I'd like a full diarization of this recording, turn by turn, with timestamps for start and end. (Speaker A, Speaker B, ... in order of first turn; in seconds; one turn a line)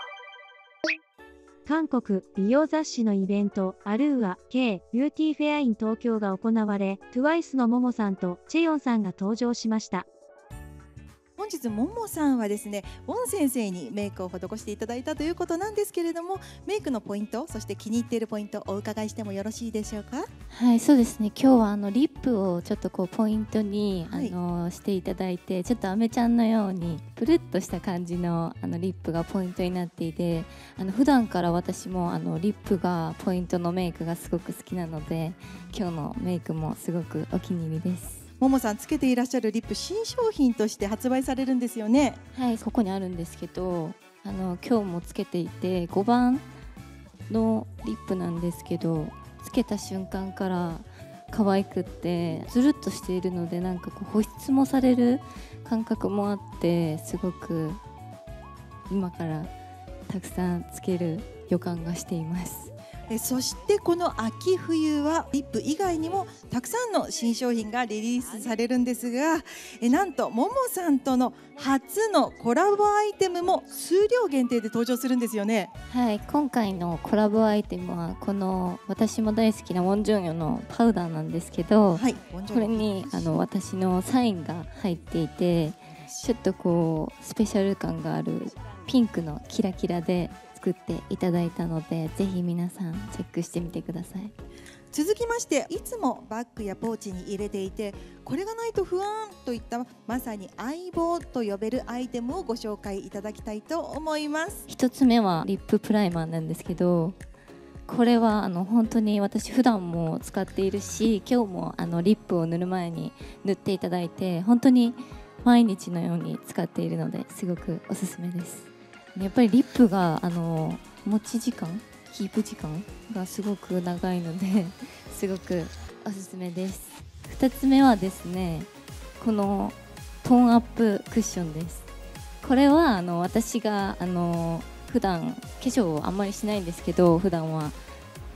Speaker A: 1.6-10.1
Speaker B: 11.4-20.3
Speaker C: 20.5-38.2
Speaker B: 24.1-24.4
Speaker B: 38.4-42.2
Speaker C: 42.3-46.4
Speaker C: 47.3-57.8
Speaker C: 58.9-59.5
Speaker C: 60.1-62.7
Speaker B: 63.1-75.7
Speaker C: 75.9-94.3
Speaker B: 81.9-83.3
Speaker B: 85.9-86.3
Speaker B: 94.9-104.7
Speaker C: 104.7-107.2
Speaker C: 107.9-131.9
Speaker C: 132.4-137.8